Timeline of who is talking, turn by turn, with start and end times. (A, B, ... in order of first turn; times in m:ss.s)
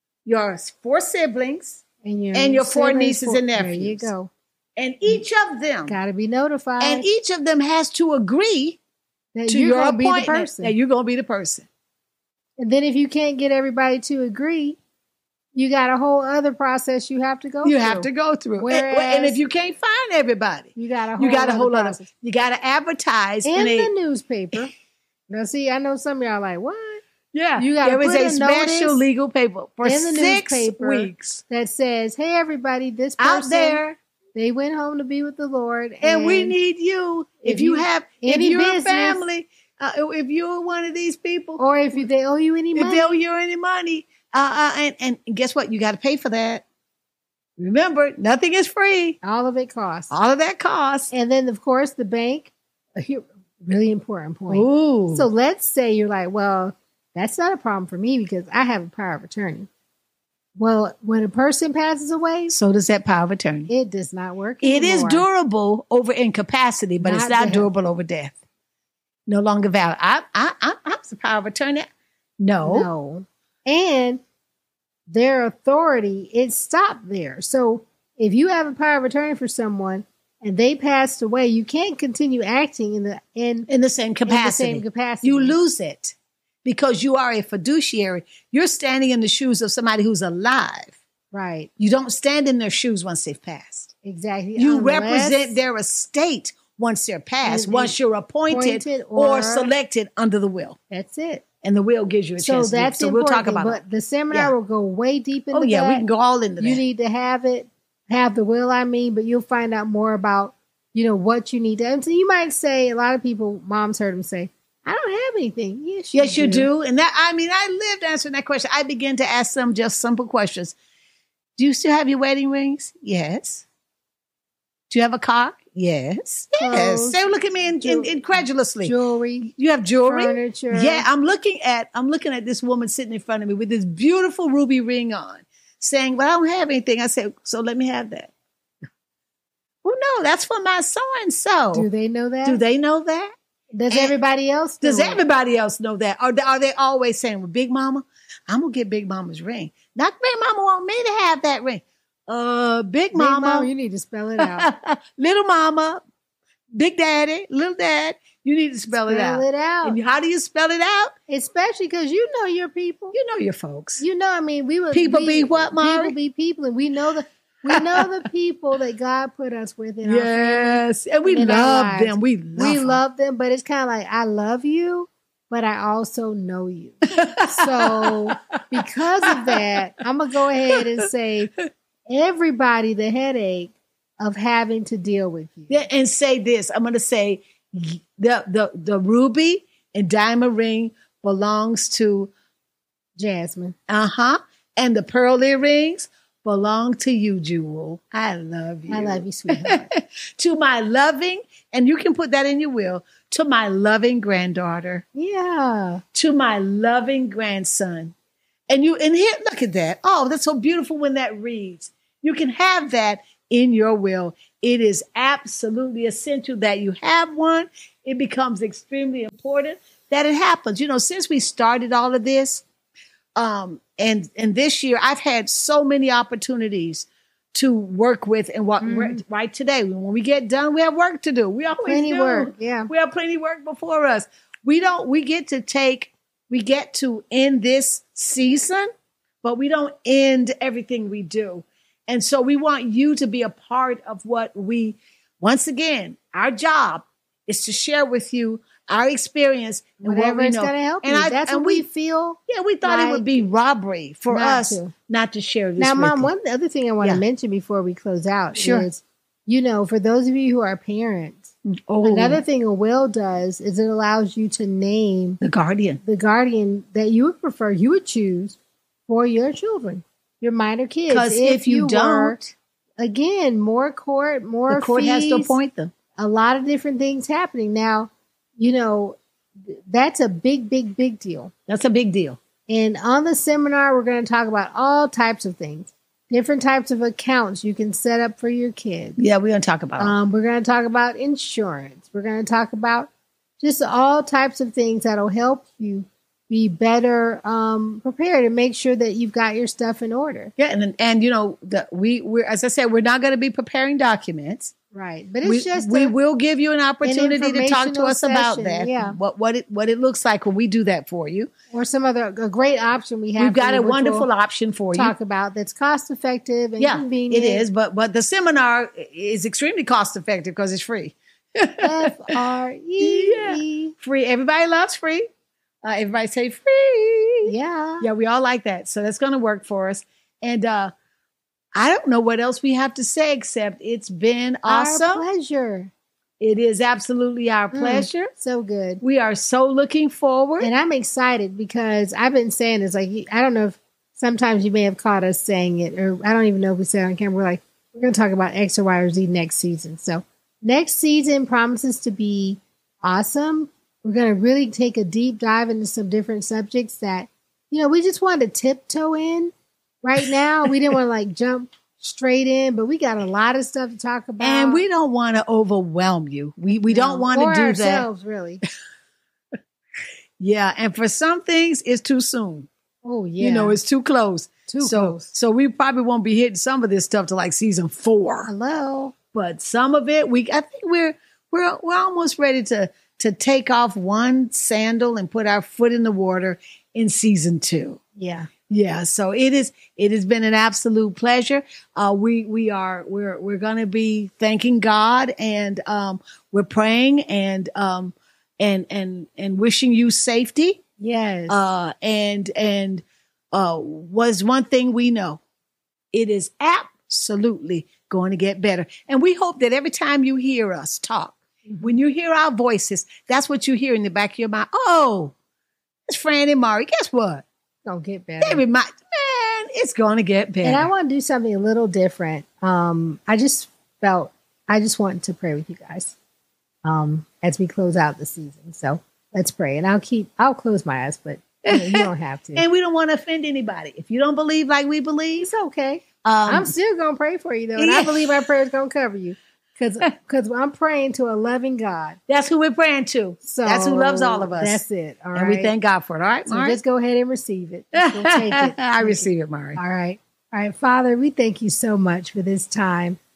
0:00.2-0:01.8 A
0:02.0-0:04.3 B
0:02.3-0:04.1 A
0:04.8-0:06.0 A
0:05.9-0:07.1 B
0:06.8-0:08.8 A
0:09.3-0:10.7 B
0:09.5-0:11.7 A
0:12.6-0:14.8 B
0:15.5-0:19.4 B
0:17.6-0:23.9 A
0:20.8-0:22.1 B
0:23.4-0:24.7 B
0:25.3-0:27.0 B
0:27.3-0:31.4 A
0:27.6-0:29.0 B
0:29.8-0:33.8 B
0:33.2-0:34.0 A
0:34.3-0:36.5 B
0:36.0-0:42.0 A
0:37.4-0:39.2 B
0:41.6-0:43.1 B
0:42.7-0:46.6 A
0:47.6-0:49.2 A
0:49.2-0:50.1 B
0:50.1-0:51.1 A
0:51.1-0:59.7 B
0:54.5-0:55.3 A
1:00.6-1:02.5 B
1:02.5-1:03.7 A
1:03.7-1:05.2 B
1:04.6-1:08.4 A
1:07.0-1:07.7 B
1:09.3-1:11.9 A
1:12.4-1:12.9 A
1:12.6-1:14.2 B
1:15.1-1:23.7 B
1:23.7-1:31.0 A
1:24.2-1:25.6 B
1:31.3-1:31.7 B
1:31.8-1:33.9 A
1:34.0-1:35.6 B
1:34.6-1:40.8 A
1:37.4-1:38.0 B
1:38.5-1:39.7 B
1:40.9-1:41.4 B
1:41.6-1:44.5 A
1:42.4-1:46.0 B
1:45.5-1:46.8 A
1:46.6-1:56.7 B
1:56.1-2:00.7 A
2:01.6-2:03.6 A
2:04.9-2:08.9 A
2:06.6-2:07.2 B
2:07.8-2:09.5 B
2:09.5-2:18.3 A
2:10.0-2:11.0 B
2:19.8-2:21.9 A
2:21.7-2:22.6 B
2:22.4-2:23.3 A
2:23.7-2:25.2 B
2:23.9-2:24.1 A
2:24.8-2:33.7 A
2:33.1-2:34.7 B
2:34.4-2:36.0 A
2:36.7-2:41.1 A
2:38.9-2:40.0 B
2:41.3-2:43.2 B
2:43.1-2:44.0 A
2:44.0-3:01.5 B
2:44.9-2:46.1 A
2:47.6-2:48.1 A
2:50.0-2:53.0 A
2:57.1-2:59.7 A
3:00.7-3:01.0 A
3:02.1-3:05.8 B
3:05.7-3:12.3 A
3:13.2-3:13.8 B
3:13.9-3:25.0 A
3:18.9-3:19.9 B
3:25.1-3:26.0 B
3:26.1-3:28.1 A
3:28.7-3:42.6 A
3:43.4-3:58.9 A
3:48.8-3:49.2 B
3:51.8-3:52.9 B
3:59.4-4:11.8 A
4:10.0-4:13.4 B
4:12.5-4:16.3 A
4:14.3-4:14.9 B
4:15.8-4:21.5 B
4:18.5-4:18.9 A
4:21.9-4:22.4 A
4:22.0-4:25.4 B
4:25.4-4:26.0 A
4:26.0-4:28.6 B
4:29.1-4:32.4 B
4:31.1-4:32.5 A
4:33.0-4:35.6 B
4:34.7-4:35.9 A
4:36.2-4:39.2 B
4:39.7-4:41.5 B
4:41.7-4:42.4 A
4:42.7-4:49.2 B
4:49.2-4:50.2 A
4:50.0-5:00.5 B
5:00.6-5:04.7 A
5:04.9-5:06.1 B
5:05.4-5:11.5 A
5:07.0-5:09.2 B
5:11.7-5:14.3 B
5:13.4-5:15.1 A
5:14.9-5:17.6 B
5:16.8-5:22.3 A
5:21.8-5:23.9 B
5:23.0-5:25.2 A
5:25.8-5:30.9 A
5:27.4-5:28.1 B
5:31.7-5:35.2 A
5:34.6-5:35.9 B
5:36.4-5:38.3 A
5:37.7-5:39.0 B
5:39.0-5:40.7 A
5:40.6-6:04.8 B
6:04.4-6:08.1 A
6:06.9-6:08.6 B
6:10.4-6:12.7 A
6:13.0-6:13.8 B
6:13.4-6:18.5 A
6:14.7-6:15.3 B
6:18.4-6:19.1 B
6:19.3-6:28.0 A
6:28.2-6:28.5 B
6:28.7-6:40.8 A
6:41.0-6:41.6 B
6:41.5-6:45.4 A
6:46.1-6:55.3 A
6:51.6-6:51.9 B
6:56.1-6:57.4 A
6:57.8-6:58.6 B
6:58.4-7:00.9 A
7:00.6-7:06.2 B
7:06.8-7:12.6 B
7:11.6-7:15.5 A
7:15.4-7:22.2 B
7:16.2-7:16.7 A
7:17.8-7:18.5 A
7:22.3-7:24.8 A
7:23.4-7:25.7 B
7:25.3-7:26.8 A
7:26.5-7:33.2 B
7:27.9-7:29.8 A